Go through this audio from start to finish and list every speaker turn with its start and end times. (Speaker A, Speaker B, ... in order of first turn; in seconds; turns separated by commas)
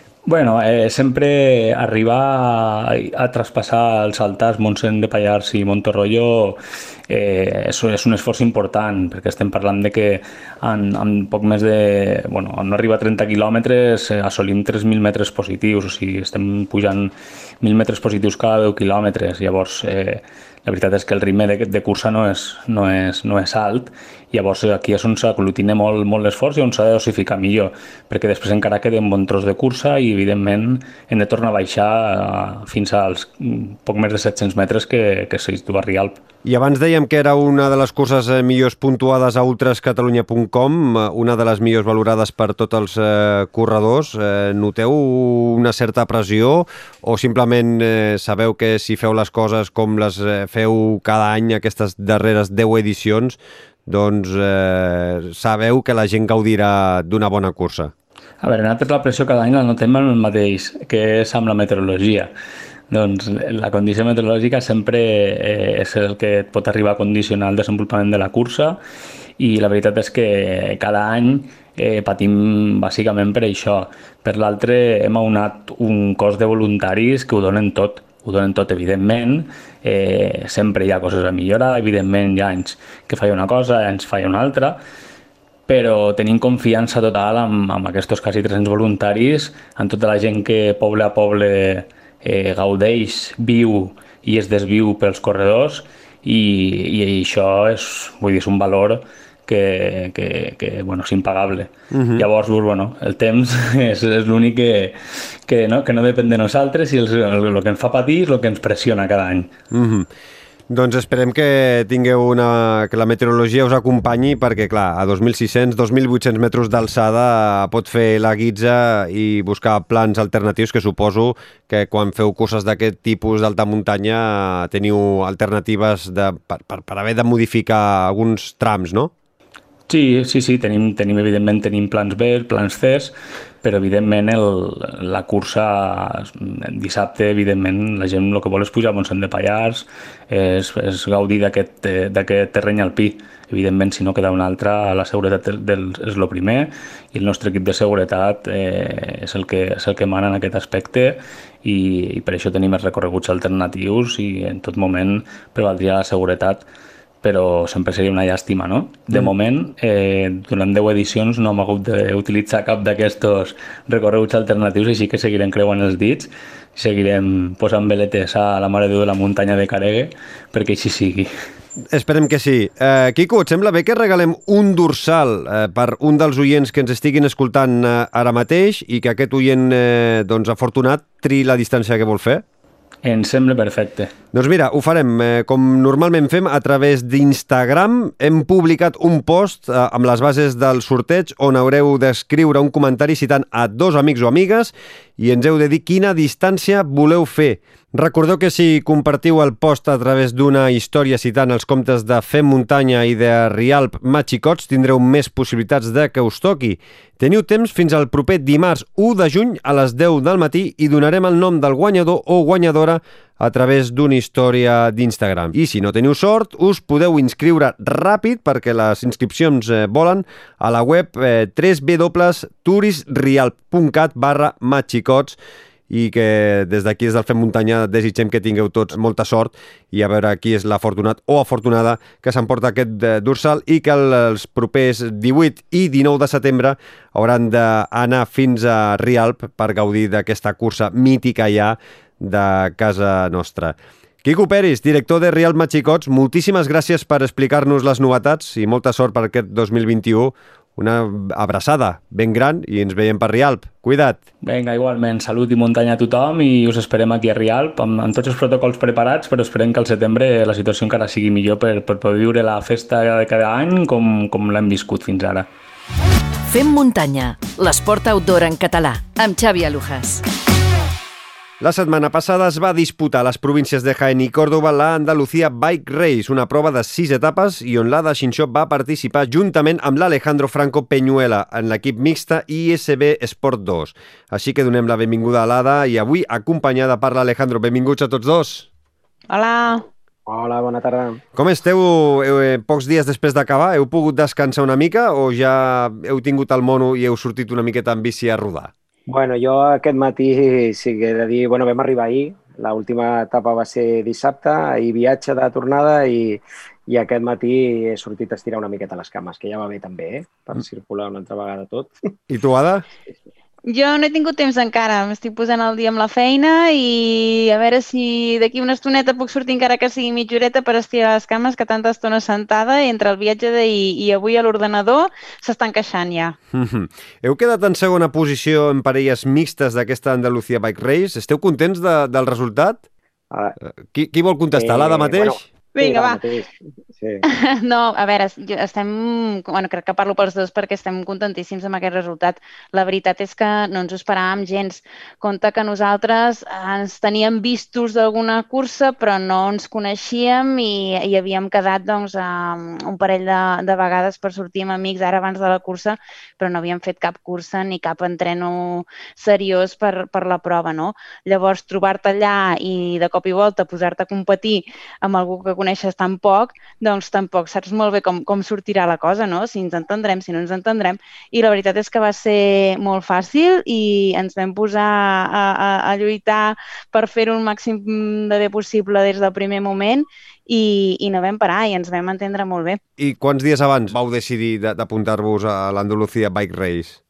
Speaker A: 0.2-36.2, Speaker B: 36.4-57.9, Speaker A: 58.4-62.3, Speaker A: 62.9-68.8, Speaker A: 69.4-84.8, Speaker A: 85.7-105.0, Speaker B: 101.9-102.2, Speaker A: 105.5-109.5, Speaker B: 109.7-110.1, Speaker B: 110.7-129.1, Speaker A: 129.9-156.7, Speaker A: 157.2-171.3, Speaker B: 171.9-182.4, Speaker A: 183.0-184.1, Speaker B: 184.3-225.4, Speaker B: 225.9-254.2, Speaker A: 254.4-265.5, Speaker C: 266.4-270.2, Speaker B: 271.6-288.7, Speaker D: 289.3-289.9, Speaker E: 290.3-291.2, Speaker B: 291.4-298.7, Speaker E: 299.1-311.9, Speaker B: 312.3-312.9, Speaker D: 313.6-326.4, Speaker B: 326.5-332.8, Speaker E: 333.3-333.6, Speaker B: 333.6-335.4, Speaker E: 334.5-337.2, Speaker D: 335.7-336.2, Speaker D: 337.3-382.8, Speaker B: 383.0-387.0